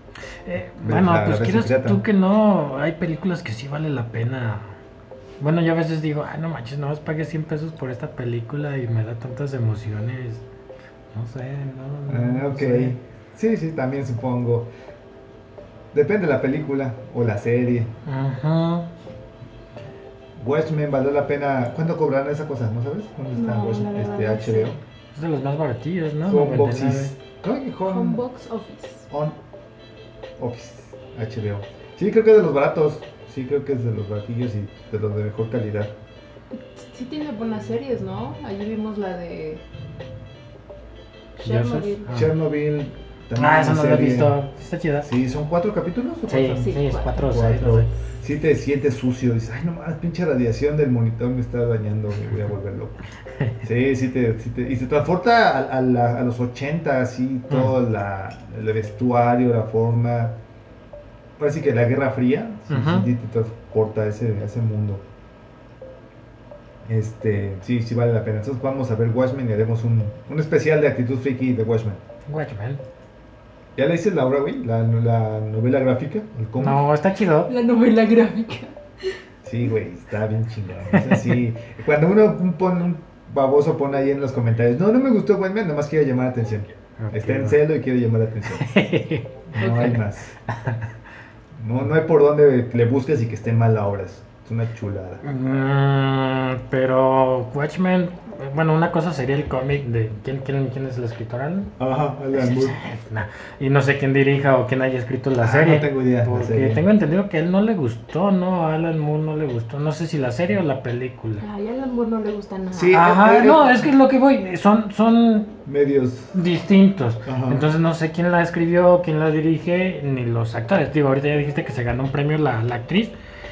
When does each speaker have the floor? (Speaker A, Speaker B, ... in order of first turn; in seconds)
Speaker A: 0.5-4.8, 5.4-10.4, 11.1-13.0, 18.1-18.9, 25.1-27.1, 41.4-42.3, 43.4-45.1, 46.3-47.9, 62.7-63.1, 72.3-72.8, 76.6-77.5, 80.9-81.4, 87.0-87.6, 88.5-90.9, 95.2-101.7, 102.3-111.4, 112.9-115.6, 116.3-123.2
Speaker B: 0.8-2.0, 12.1-14.7, 15.9-17.9, 20.4-24.8, 26.3-28.2, 29.1-29.4, 30.4-35.9, 42.1-44.4, 45.0-53.1, 53.6-60.4, 61.4-65.0, 66.8-72.0, 73.8-76.8, 79.5-88.7, 89.5-90.3, 91.6-95.2, 101.8-102.8, 105.4-106.8, 112.7-113.9, 115.7-116.4, 117.2-117.7
Speaker C: 23.3-24.7, 27.9-29.1, 36.5-39.6, 41.4-42.1, 46.6-47.4, 77.5-78.8, 89.6-90.0, 111.4-113.0